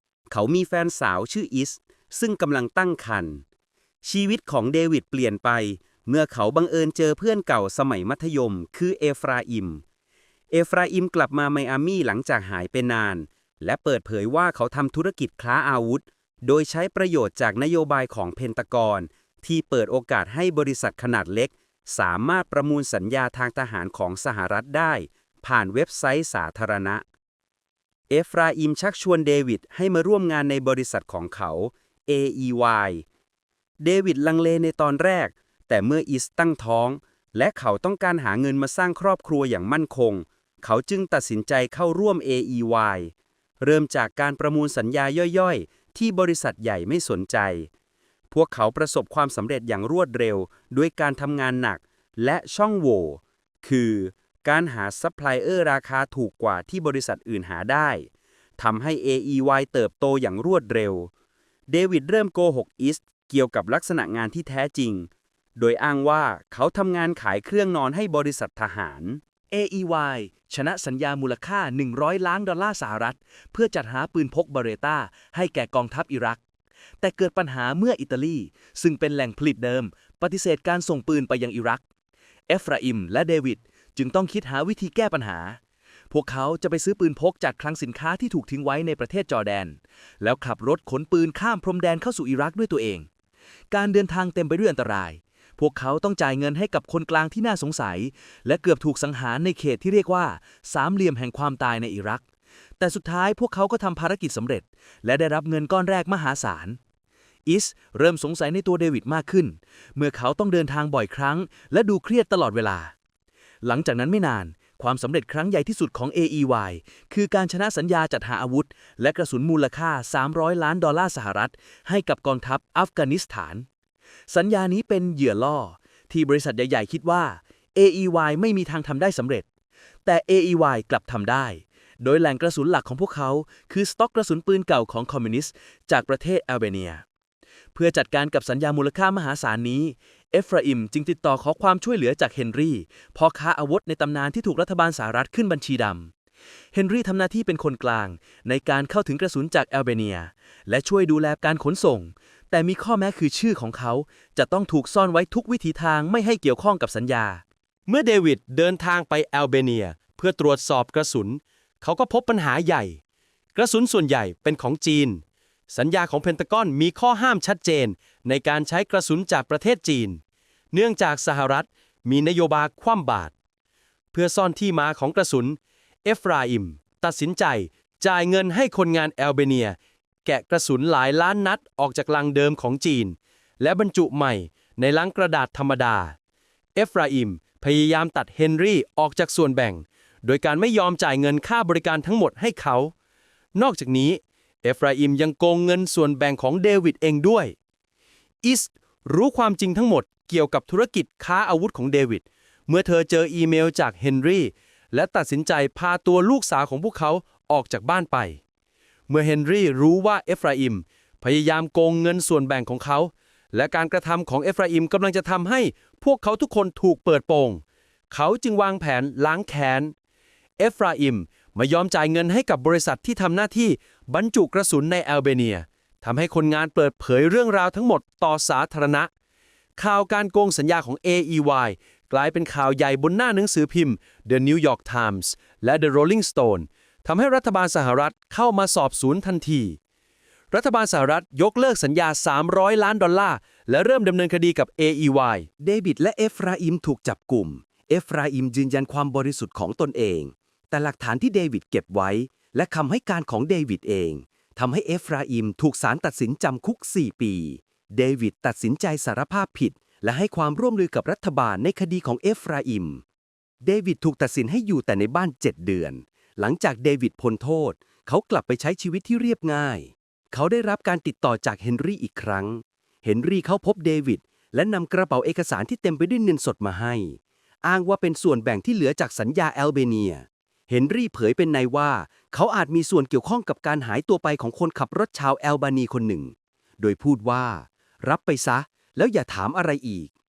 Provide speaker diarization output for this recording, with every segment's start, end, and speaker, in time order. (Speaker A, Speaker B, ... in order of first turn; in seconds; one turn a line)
Speaker A: 0.3-3.4
Speaker A: 4.0-9.8
Speaker A: 10.5-27.0
Speaker A: 28.1-33.0
Speaker A: 33.8-47.7
Speaker A: 48.3-61.1
Speaker A: 61.7-69.2
Speaker B: 69.5-70.6
Speaker C: 69.6-76.4
Speaker B: 72.1-73.1
Speaker C: 77.0-81.8
Speaker C: 82.5-85.6
Speaker C: 86.1-93.0
Speaker B: 86.8-88.0
Speaker C: 93.7-102.2
Speaker C: 102.8-106.8
Speaker B: 103.3-105.0
Speaker B: 105.8-106.1
Speaker C: 107.5-112.9
Speaker C: 113.6-123.6
Speaker B: 114.5-115.0
Speaker B: 115.8-117.1
Speaker B: 118.6-119.3
Speaker B: 121.4-123.6
Speaker B: 124.3-126.1
Speaker C: 124.3-127.2
Speaker B: 126.9-129.4
Speaker C: 127.8-129.4
Speaker C: 130.1-131.4
Speaker B: 130.1-132.2
Speaker C: 132.2-137.0
Speaker B: 132.8-136.2
Speaker B: 137.8-146.1
Speaker C: 137.8-146.0
Speaker C: 146.7-157.4
Speaker B: 146.9-148.9
Speaker B: 150.1-151.9
Speaker B: 153.1-154.7
Speaker B: 156.6-157.4
Speaker D: 157.9-163.0
Speaker D: 163.5-170.2
Speaker D: 170.7-173.3
Speaker D: 174.1-186.2
Speaker D: 186.8-192.9
Speaker D: 193.5-197.5
Speaker D: 198.4-208.4
Speaker D: 209.1-219.9
Speaker D: 220.6-229.1
Speaker D: 229.8-239.8
Speaker D: 240.5-245.5
Speaker B: 245.6-263.0
Speaker B: 263.6-290.1